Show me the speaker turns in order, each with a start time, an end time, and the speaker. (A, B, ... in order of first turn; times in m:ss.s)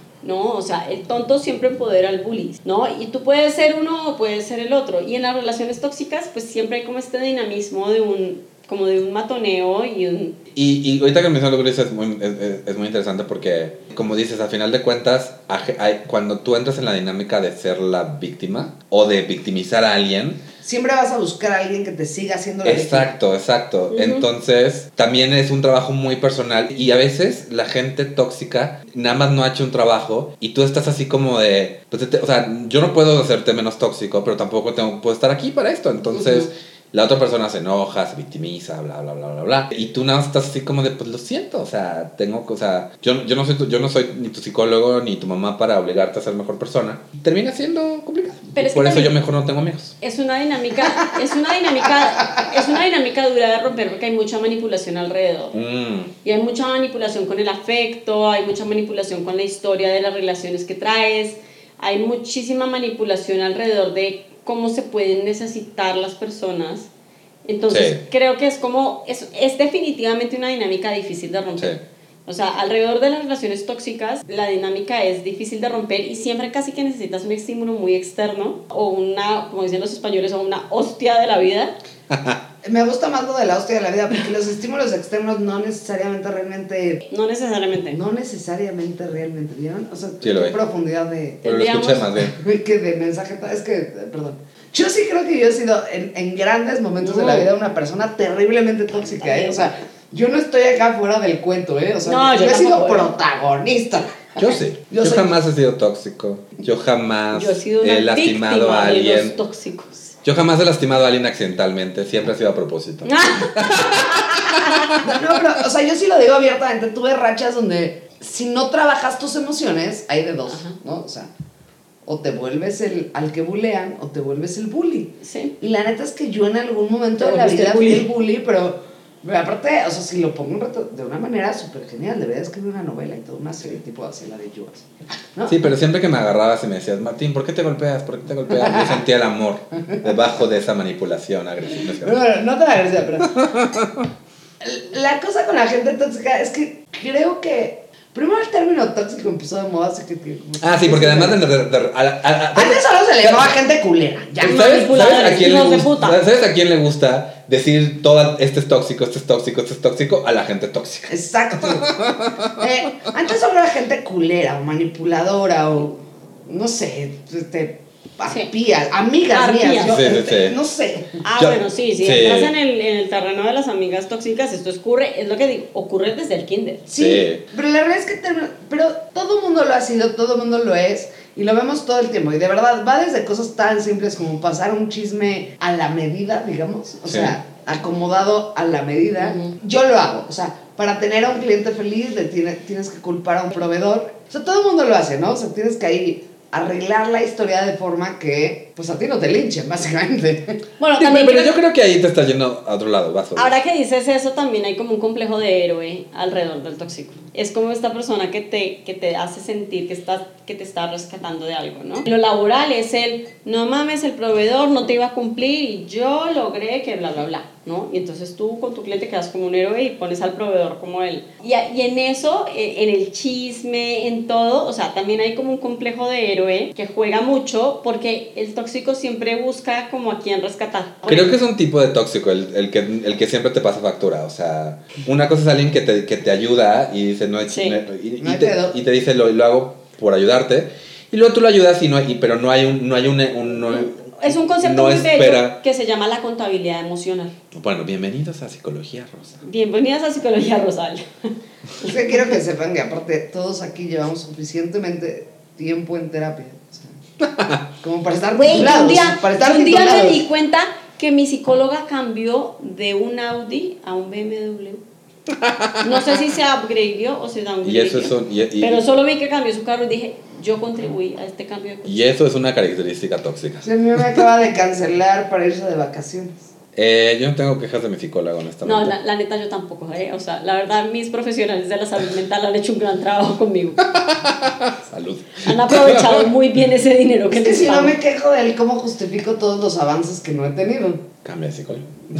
0:00.2-0:10.3 A
0:10.5-0:20.4 B
0:20.6-0:23.1 C
0:22.6-0:50.0 B
0:23.9-0:24.2 A
0:36.2-0:36.4 A
0:48.5-0:49.1 A
0:50.0-0:55.6 A
0:55.5-0:56.1 B
0:56.2-1:06.9 A
1:07.4-1:21.7 A
1:07.7-1:08.0 B
1:22.1-1:22.4 B
1:22.6-1:27.0 C
1:27.1-1:28.0 A
1:27.9-1:31.4 C
1:30.2-1:30.6 B
1:31.4-1:32.0 A
1:31.4-1:32.3 B
1:32.3-1:45.3 C
1:37.0-1:37.5 A
1:39.2-1:39.6 A
1:42.0-1:43.1 A
1:44.4-1:49.4 B
1:47.3-1:50.1 A
1:50.2-1:54.9 B
1:53.0-1:55.1 A
1:55.0-2:01.3 C
2:00.5-2:00.8 A
2:02.0-2:15.6 C
2:05.2-2:05.5 A
2:07.2-2:08.1 A
2:15.5-2:22.2 B
2:18.5-2:19.0 C
2:21.9-2:23.4 C
2:23.4-2:24.1 B
2:24.6-2:31.4 C
2:30.6-2:33.5 B
2:32.5-2:35.0 C
2:34.4-2:42.5 B
2:34.4-2:36.2 A
2:41.1-2:51.2 C
2:49.3-2:50.0 A
2:49.8-2:50.6 B
2:51.2-2:56.9 A
2:51.4-2:52.5 B
2:56.9-3:20.6 C
2:57.0-2:57.4 B
3:07.1-3:07.4 B
3:09.2-3:09.5 A
3:20.8-3:21.6 A
3:20.9-3:23.6 B
3:23.4-3:51.3 A
3:51.1-4:05.6 B
3:57.5-3:57.8 A
3:58.2-3:58.8 C
4:03.7-4:07.3 A
4:07.5-4:09.4 B
4:09.4-4:11.3 A
4:11.8-4:16.9 C
4:17.2-4:17.6 B
4:17.8-4:20.2 C
4:18.4-4:24.8 A
4:25.3-4:26.1 B
4:25.8-4:32.1 A
4:27.6-4:28.8 B
4:31.8-4:34.2 B
4:33.6-4:36.4 C
4:36.7-4:38.9 B
4:38.6-4:43.9 A
4:44.0-4:46.3 B
4:45.4-4:48.0 A
4:47.3-4:51.1 C
4:51.2-4:51.9 B